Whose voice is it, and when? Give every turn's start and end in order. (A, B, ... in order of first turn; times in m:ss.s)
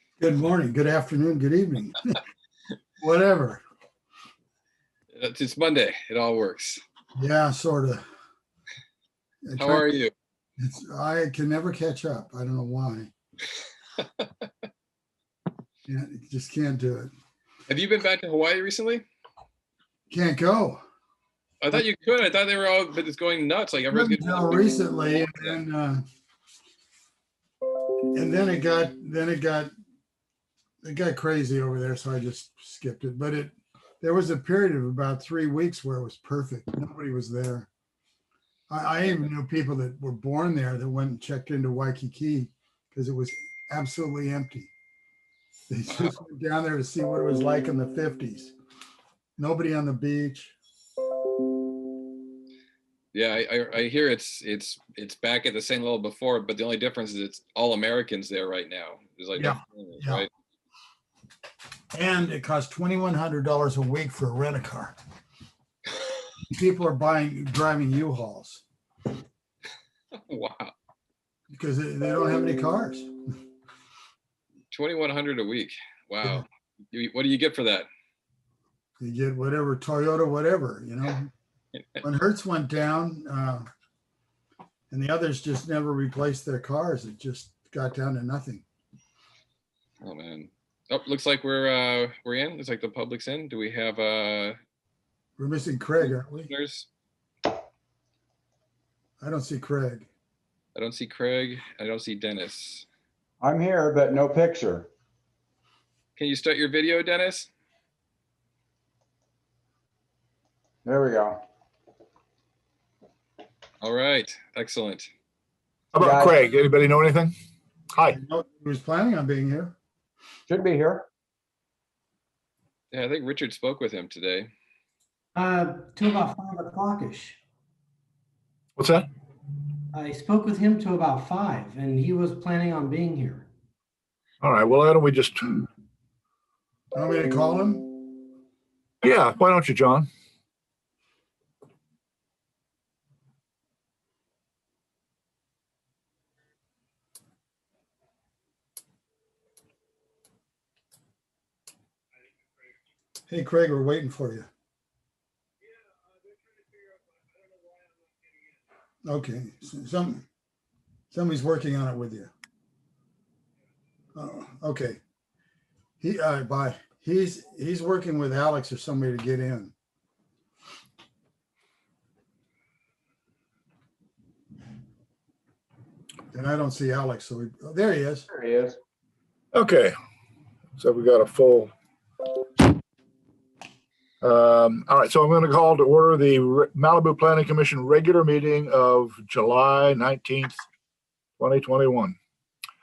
0:00.2-0:02.2 A
0:03.0-0:03.6 A
0:05.1-0:06.8 B
0:07.2-0:08.0 A
0:09.4-0:09.9 A
0:09.6-0:10.1 B
0:10.6-0:13.1 A
0:14.0-0:14.4 B
0:15.8-0:17.1 A
0:17.7-0:19.0 B
0:20.1-0:20.8 A
0:21.6-0:25.6 B
0:23.9-0:26.0 A
0:28.1-0:29.7 A
0:30.8-0:37.7 A
0:38.7-0:44.7 A
0:45.7-0:48.5 A
0:49.4-0:50.5 A
0:53.1-1:00.3 B
0:59.4-1:00.2 A
1:01.9-1:05.0 A
1:06.5-1:08.6 A
1:10.3-1:10.7 B
1:11.5-1:13.1 A
1:14.7-1:17.9 B
1:19.0-1:21.3 A
1:22.0-1:23.7 A
1:24.9-1:28.6 A
1:30.0-1:34.6 B
1:35.4-1:36.5 A
1:36.0-1:36.9 B
1:39.2-1:40.1 A
1:40.7-1:42.8 B
1:43.4-1:44.9 C
1:46.2-1:47.5 B
1:50.8-1:51.4 C
1:53.8-1:55.1 B
1:55.9-1:57.3 D
1:56.0-1:56.5 C
1:58.1-1:59.8 A
2:00.5-2:01.1 C
2:02.9-2:04.5 B
2:05.3-2:07.4 E
2:08.8-2:09.1 D
2:09.9-2:13.5 E
2:14.4-2:15.6 D
2:16.9-2:18.0 A
2:19.0-2:20.1 D
2:33.3-2:34.5 A
2:39.0-2:40.2 A
2:41.1-2:42.3 A
2:44.1-2:45.0 A
2:46.0-2:49.7 A
2:56.3-2:58.3 A
2:58.3-2:58.8 C
2:59.5-2:59.9 D
3:00.8-3:01.7 D
3:04.2-3:10.6 D
3:11.4-3:12.2 D